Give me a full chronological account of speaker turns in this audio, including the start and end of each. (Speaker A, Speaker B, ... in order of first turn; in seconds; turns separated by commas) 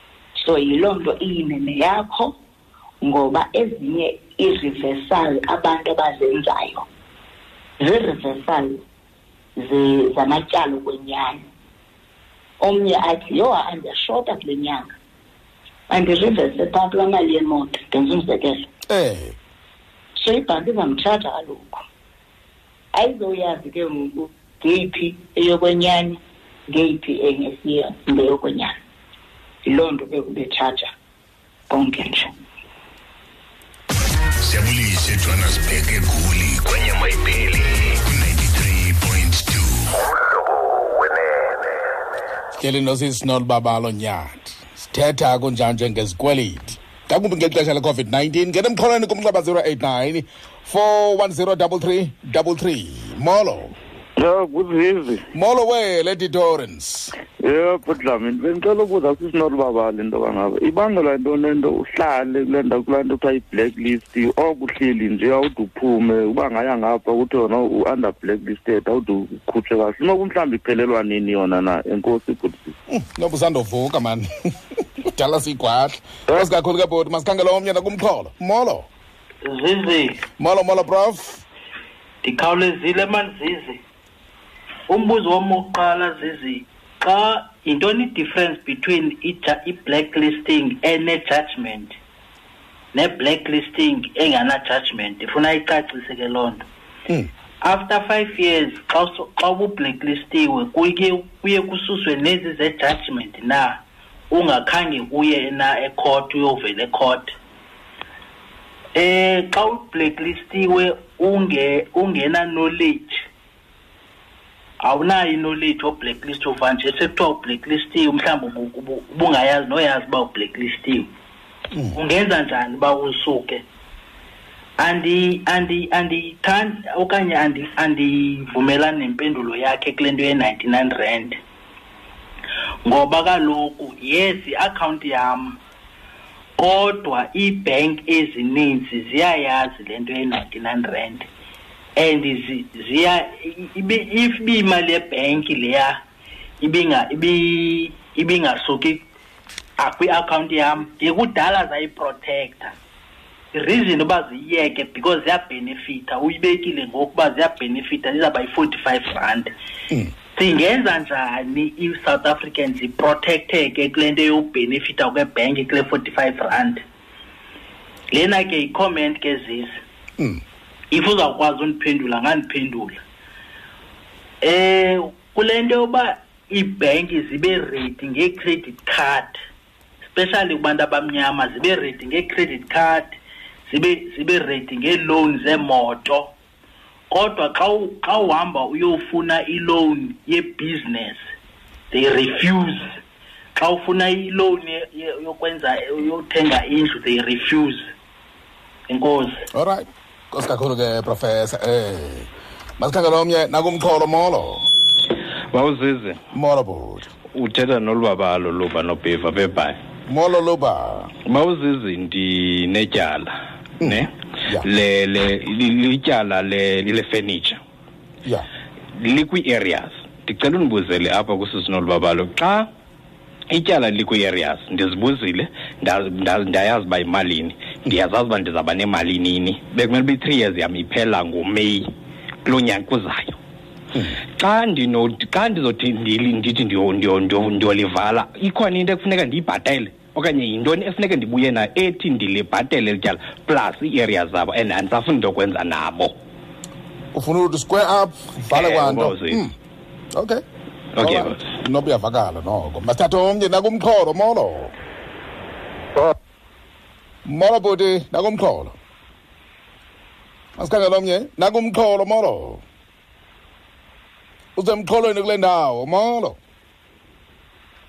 Speaker A: 0.3-2.4, Speaker A: 3.0-6.9, Speaker A: 7.8-8.8, Speaker A: 9.6-11.4, Speaker A: 12.6-14.9, Speaker A: 15.9-18.7, Speaker B: 18.9-19.4, Speaker A: 20.2-21.9, Speaker A: 22.9-28.8, Speaker A: 29.6-30.9, Speaker A: 31.7-32.3, Speaker C: 34.4-40.0, Speaker B: 42.6-53.7, Speaker D: 54.2-55.2, Speaker B: 55.3-57.1, Speaker D: 57.4-72.7, Speaker B: 72.9-74.5, Speaker B: 75.1-78.9, Speaker E: 79.4-80.2, Speaker B: 80.4-81.4, Speaker E: 82.2-83.8, Speaker E: 84.9-92.0, Speaker E: 92.9-96.7, Speaker E: 97.6-107.3, Speaker E: 108.9-113.2, Speaker E: 114.8-121.1, Speaker E: 121.9-123.6, Speaker E: 124.8-131.4, Speaker E: 132.8-135.6, Speaker E: 136.6-141.3, Speaker E: 142.0-146.0, Speaker E: 146.6-149.1, Speaker E: 149.8-152.8, Speaker E: 153.5-159.5, Speaker E: 160.3-166.8, Speaker E: 168.1-169.8, Speaker E: 170.9-173.0, Speaker E: 174.4-179.4, Speaker E: 180.1-183.2, Speaker E: 183.7-186.3, Speaker E: 187.1-191.2, Speaker E: 191.9-193.0, Speaker E: 193.6-197.9, Speaker E: 198.9-199.4, Speaker B: 199.5-202.3, Speaker B: 202.8-204.7, Speaker F: 205.5-206.2, Speaker B: 206.3-207.1, Speaker F: 207.3-209.8, Speaker B: 210.1-211.1, Speaker F: 211.3-217.6, Speaker B: 213.8-214.7, Speaker F: 219.0-222.7, Speaker F: 223.5-231.9, Speaker F: 232.4-233.4, Speaker F: 234.3-246.2, Speaker B: 247.1-249.5, Speaker F: 248.5-249.5, Speaker B: 250.1-250.4, Speaker F: 251.0-251.4, Speaker B: 251.0-254.7, Speaker B: 257.3-258.7, Speaker B: 260.6-262.6, Speaker B: 264.6-266.4